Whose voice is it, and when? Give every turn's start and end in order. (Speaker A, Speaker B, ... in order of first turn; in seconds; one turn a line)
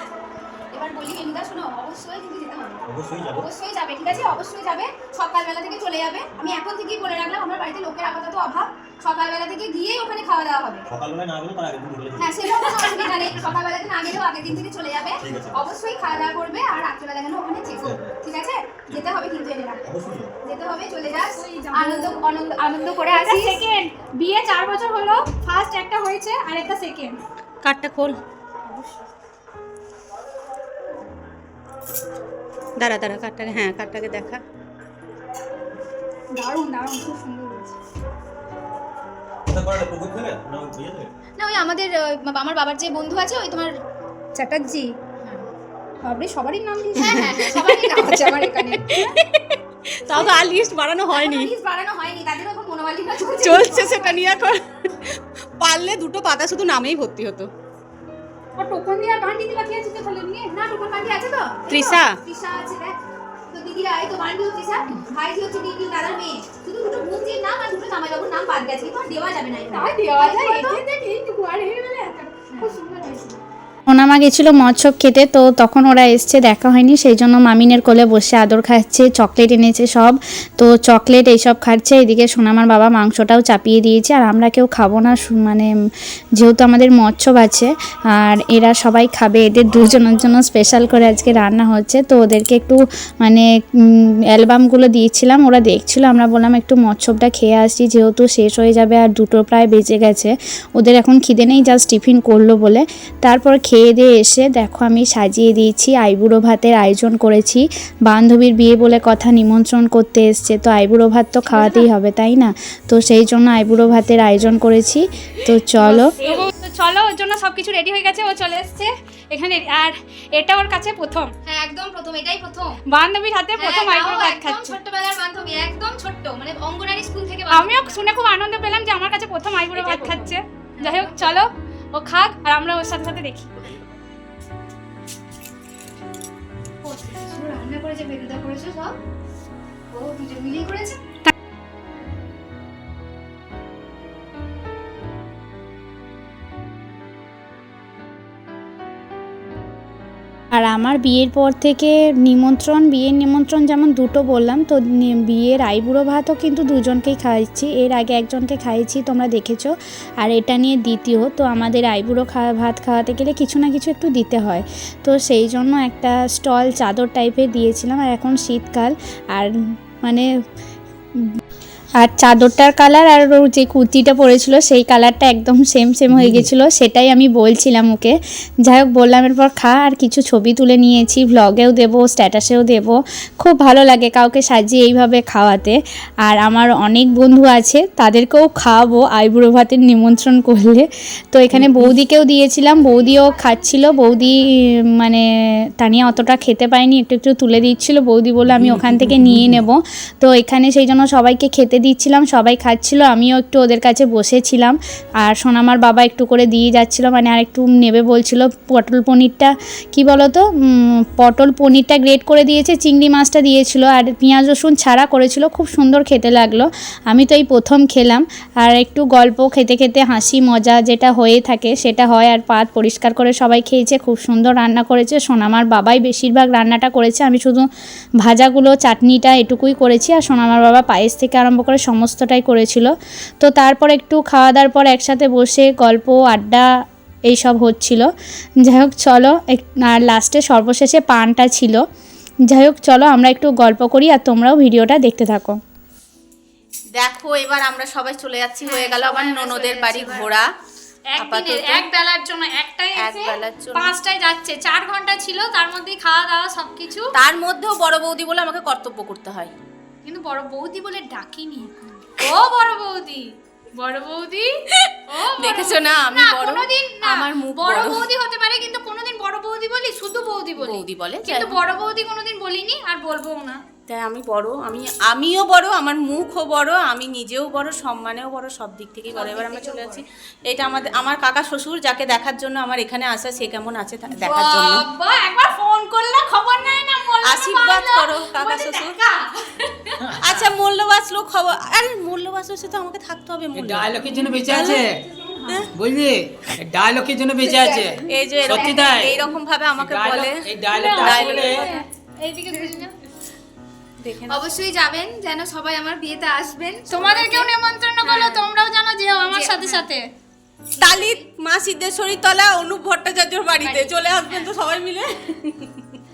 Speaker A: 0.7-2.8
Speaker B: 2.9-3.5
Speaker A: 3.4-10.9
Speaker B: 10.9-12.4
Speaker A: 12.2-19.9
Speaker B: 15.2-15.6
Speaker B: 17.7-18.2
Speaker B: 19.8-20.3
Speaker A: 20.4-23.6
Speaker C: 21.2-22.2
Speaker C: 23.1-27.2
Speaker D: 27.6-28.2
Speaker C: 28.6-29.0
Speaker D: 32.8-34.4
Speaker C: 36.4-37.7
Speaker B: 39.5-41.1
Speaker A: 41.4-43.8
Speaker A: 44.4-45.5
Speaker C: 44.5-44.7
Speaker C: 46.0-47.7
Speaker A: 46.9-49.1
Speaker D: 47.0-48.2
Speaker D: 48.9-51.5
Speaker A: 50.1-50.4
Speaker A: 51.1-54.2
Speaker D: 53.3-57.5
Speaker C: 58.6-60.5
Speaker A: 60.4-63.0
Speaker D: 61.7-62.2
Speaker A: 63.5-70.8
Speaker C: 69.7-73.4
Speaker E: 73.9-85.7
Speaker E: 86.4-116.1
Speaker C: 111.5-111.9
Speaker C: 115.8-121.3
Speaker A: 121.5-122.8
Speaker C: 122.9-124.8
Speaker A: 123.6-128.1
Speaker C: 127.5-133.5
Speaker A: 129.7-131.2
Speaker A: 136.8-139.0
Speaker A: 139.9-141.0
Speaker E: 150.6-170.3
Speaker E: 172.0-195.2
Speaker E: 195.8-227.7
Speaker F: 198.6-199.4
Speaker E: 228.2-236.7
Speaker E: 237.3-238.1
Speaker E: 238.6-241.8
Speaker E: 242.5-245.6
Speaker D: 246.9-250.5
Speaker A: 248.7-250.3
Speaker C: 249.1-249.7
Speaker C: 251.1-257.1
Speaker D: 251.2-251.9
Speaker D: 253.0-253.9
Speaker D: 257.1-259.6
Speaker C: 260.1-264.5
Speaker D: 264.8-268.0
Speaker C: 265.1-273.6
Speaker D: 270.6-271.6
Speaker D: 273.9-284.8
Speaker A: 279.2-280.0
Speaker C: 284.2-290.1
Speaker D: 287.2-289.0
Speaker D: 290.2-294.9
Speaker F: 293.5-295.0
Speaker C: 294.6-295.6
Speaker F: 295.7-299.1
Speaker A: 297.4-299.0
Speaker D: 298.1-301.8
Speaker F: 299.8-301.6
Speaker C: 300.7-302.9
Speaker D: 304.0-304.5
Speaker A: 304.3-307.5
Speaker C: 306.9-310.0
Speaker A: 308.0-308.5
Speaker A: 309.3-309.9
Speaker D: 310.8-315.9
Speaker A: 310.8-311.2
Speaker A: 313.6-314.5